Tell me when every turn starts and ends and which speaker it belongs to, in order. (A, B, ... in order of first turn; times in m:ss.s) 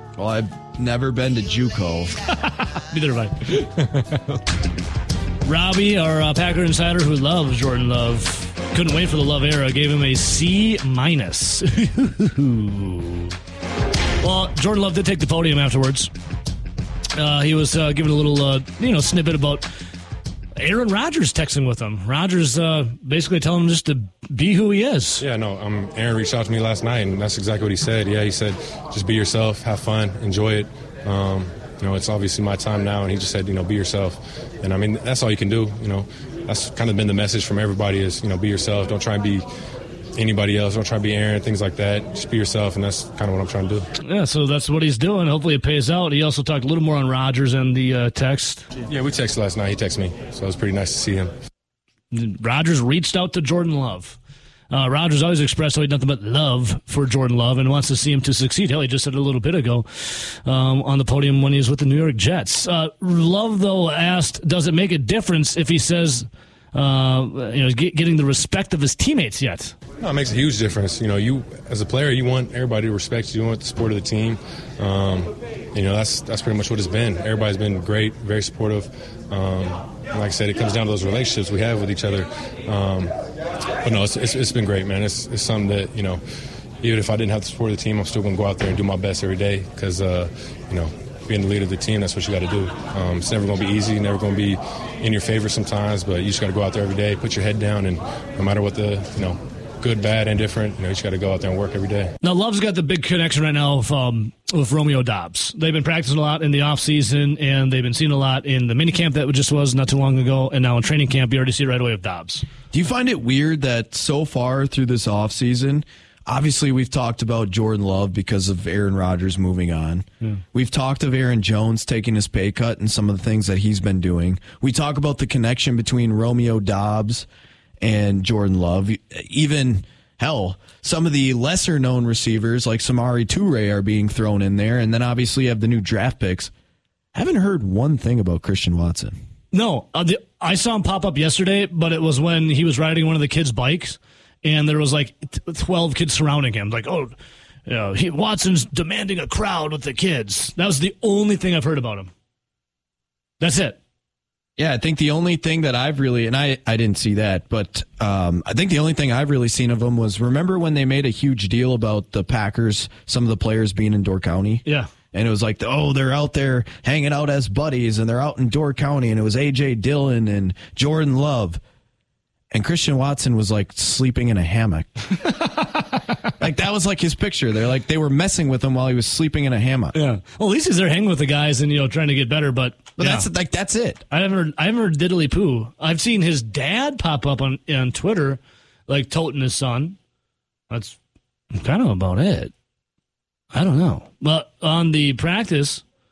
0:00.2-0:02.1 A
0:02.2-0:04.2 B
0:05.4-0:13.3 B
0:14.2-0:16.1 B
0:17.1-0:19.7 B
0:20.6-0:25.2 B
0:25.2-0:39.4 C
0:40.1-0:43.9 C
0:44.0-0:48.6 B
0:48.8-0:51.3 C
0:52.1-0:54.2 B
0:54.7-1:09.8 B
1:10.0-1:23.1 C
1:23.8-1:26.2 C
1:26.8-1:42.1 C
1:42.2-1:52.4 B
1:52.7-2:07.2 A
2:07.8-2:16.5 A
2:17.1-2:19.2 A
2:19.5-2:27.1 B
2:27.7-2:32.1 B
2:33.4-2:33.8 B
2:34.6-2:51.6 A
2:52.5-2:55.0 A
2:56.4-3:00.0 A
2:59.9-3:03.3 B
3:03.0-3:04.0 A
3:04.1-3:10.0 B
3:10.7-3:11.0 B
3:11.5-3:12.5 B
3:13.5-3:15.8 B